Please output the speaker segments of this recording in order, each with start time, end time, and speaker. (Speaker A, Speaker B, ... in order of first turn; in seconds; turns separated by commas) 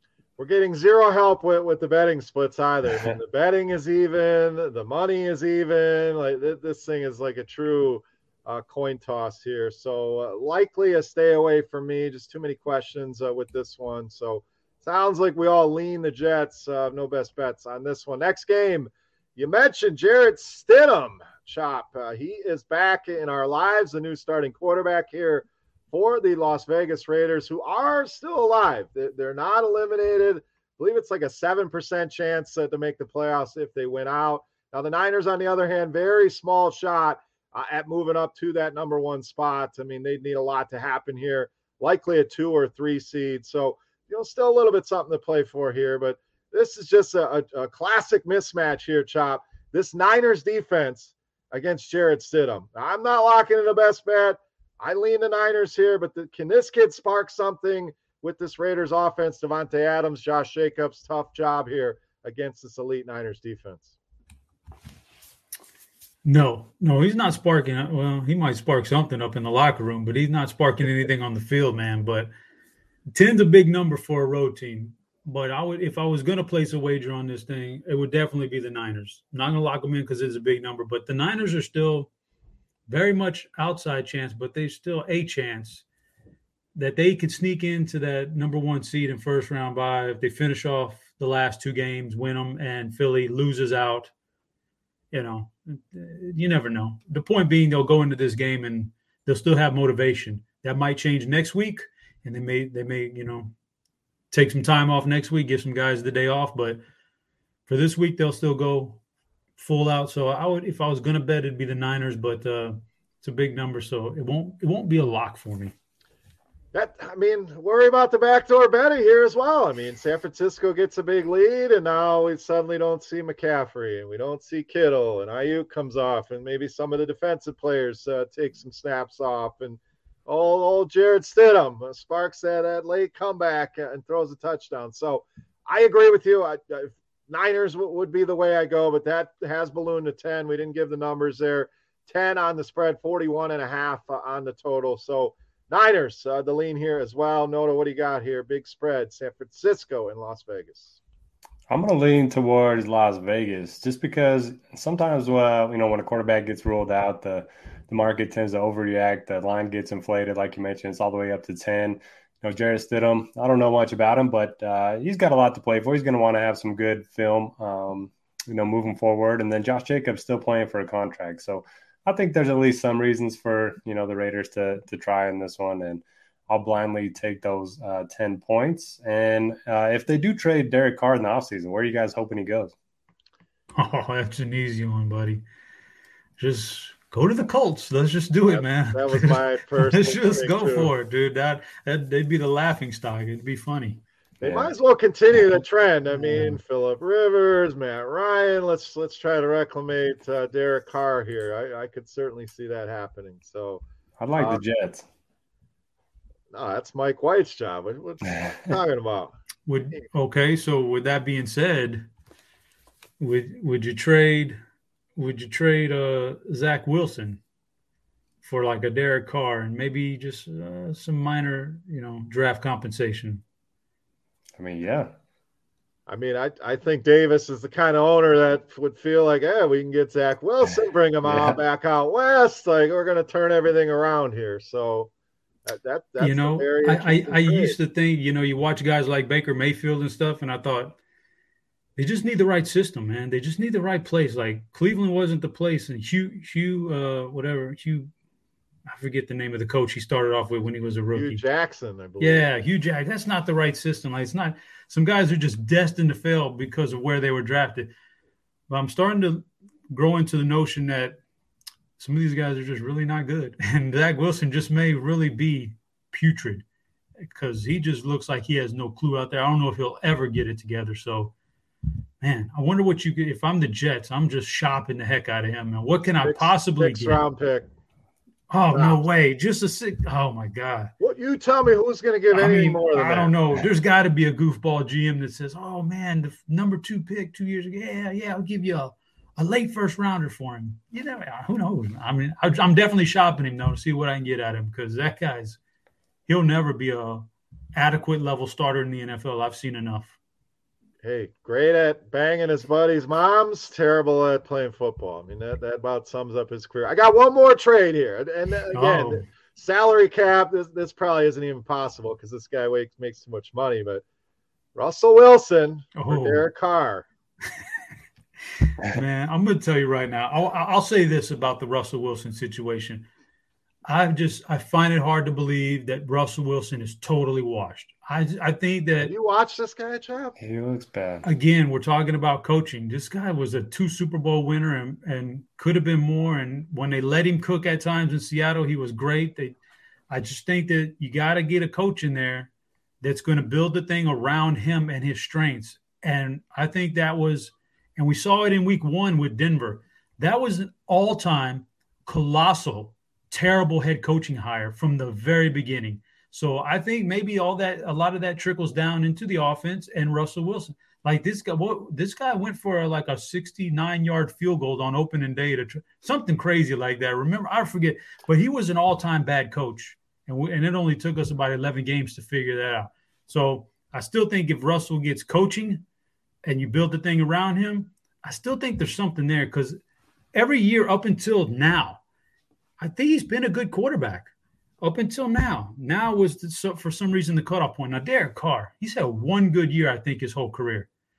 Speaker A: 0.4-64.0, Speaker B: 66.2-72.3, Speaker B: 73.1-82.1, Speaker B: 82.9-85.8, Speaker B: 86.8-94.1, Speaker B: 95.1-103.5, Speaker B: 104.3-106.8, Speaker B: 107.7-109.0, Speaker B: 109.6-115.7, Speaker A: 116.7-151.0, Speaker C: 151.7-182.7, Speaker B: 183.8-185.4, Speaker B: 186.4-194.0, Speaker A: 188.5-190.9, Speaker A: 194.4-203.8, Speaker C: 194.4-194.7, Speaker C: 204.2-205.1, Speaker A: 204.4-204.6, Speaker A: 206.5-209.3, Speaker B: 209.7-212.1, Speaker B: 213.2-214.6, Speaker B: 215.2-217.4, Speaker B: 218.4-223.4, Speaker C: 224.6-225.1, Speaker A: 226.1-235.1, Speaker C: 231.2-231.6, Speaker A: 235.7-237.8, Speaker B: 236.2-241.0, Speaker B: 242.0-248.1, Speaker B: 248.9-251.4, Speaker A: 251.1-252.5, Speaker B: 252.2-257.9, Speaker B: 258.7-261.2, Speaker B: 262.0-266.6, Speaker B: 267.2-271.3, Speaker B: 272.2-277.2, Speaker A: 276.2-277.7, Speaker B: 278.5-280.9, Speaker A: 278.7-279.1, Speaker A: 281.0-283.3, Speaker B: 282.3-295.6, Speaker B: 296.3-300.2, Speaker A: 301.0-314.0, Speaker B: 308.7-309.2, Speaker A: 314.8-317.1, Speaker B: 316.0-316.4, Speaker B: 318.8-323.1, Speaker B: 323.9-329.1, Speaker A: 329.0-330.4, Speaker C: 330.4-331.2, Speaker B: 331.2-339.6, Speaker B: 340.1-342.5, Speaker B: 343.0-375.8, Speaker B: 376.4-379.8, Speaker B: 380.3-382.0, Speaker B: 382.8-384.3, Speaker B: 384.8-390.9